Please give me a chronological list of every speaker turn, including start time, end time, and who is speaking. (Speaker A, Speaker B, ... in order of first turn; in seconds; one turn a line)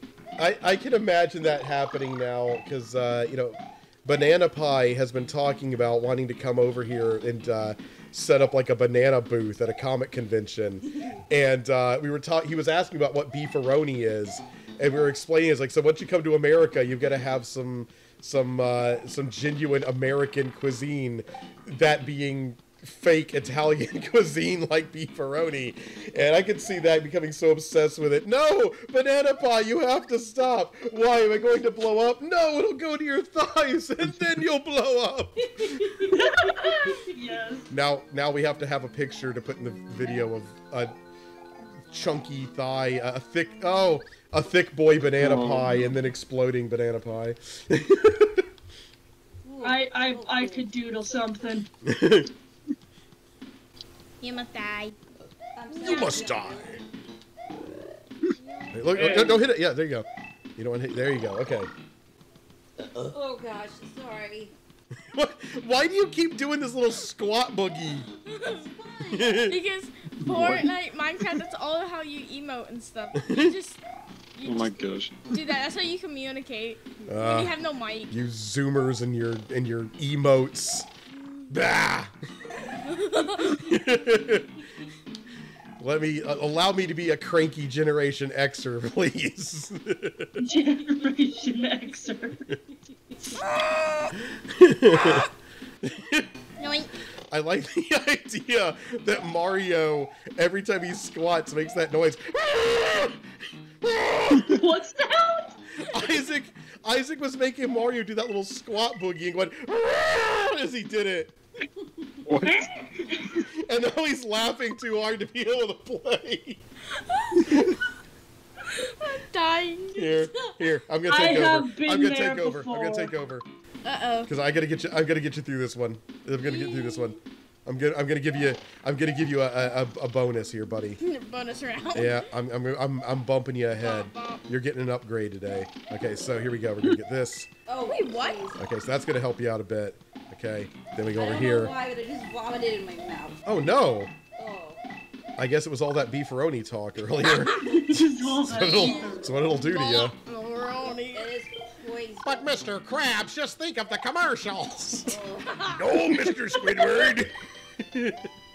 Speaker A: 0.4-36.1
Speaker B: 35.8-36.6
Speaker C: 36.1-37.7
Speaker A: 37.7-40.9
Speaker A: 41.9-48.4
Speaker D: 45.2-46.0
Speaker B: 49.4-50.7
Speaker C: 49.6-51.7
Speaker A: 51.9-52.3
Speaker E: 54.2-55.0
Speaker B: 55.6-56.8
Speaker E: 55.7-56.4
Speaker A: 55.8-56.8
Speaker E: 58.4-59.2
Speaker A: 58.7-60.1
Speaker D: 58.9-59.4
Speaker A: 60.6-61.7
Speaker B: 63.1-64.5
Speaker A: 65.1-68.1
Speaker E: 68.3-68.6
Speaker B: 68.5-69.3
Speaker A: 69.1-69.6
Speaker E: 69.4-73.8
Speaker A: 70.3-70.7
Speaker A: 73.3-73.5
Speaker E: 74.4-78.2
Speaker D: 74.4-75.4
Speaker A: 77.1-77.6
Speaker A: 78.1-80.9
Speaker A: 81.5-82.1
Speaker E: 82.8-83.7
Speaker A: 83.5-84.5
Speaker A: 85.8-90.4
Speaker C: 90.4-92.4
Speaker E: 93.3-94.1
Speaker A: 94.5-95.3
Speaker A: 95.8-96.3
Speaker E: 96.6-96.9
Speaker A: 97.3-103.2
Speaker A: 103.8-104.6
Speaker C: 104.6-105.6
Speaker A: 105.9-111.3
Speaker D: 112.3-112.5
Speaker C: 112.4-113.4
Speaker A: 113.6-116.6
Speaker E: 117.1-117.5
Speaker A: 117.4-117.8
Speaker E: 118.7-120.1
Speaker A: 120.0-123.5
Speaker C: 121.1-123.1
Speaker E: 123.8-124.3
Speaker A: 124.3-131.0
Speaker E: 126.4-127.2
Speaker E: 131.0-132.3
Speaker A: 131.9-137.5
Speaker E: 133.8-134.4
Speaker B: 137.7-138.6
Speaker E: 137.8-138.5
Speaker A: 138.6-141.7
Speaker B: 141.1-143.4
Speaker A: 143.4-144.1
Speaker B: 144.4-144.8
Speaker A: 145.4-150.2
Speaker C: 147.6-149.3
Speaker E: 148.6-151.3
Speaker B: 151.0-152.6
Speaker A: 152.2-155.2
Speaker B: 155.1-155.7
Speaker A: 155.8-157.3
Speaker A: 157.8-158.2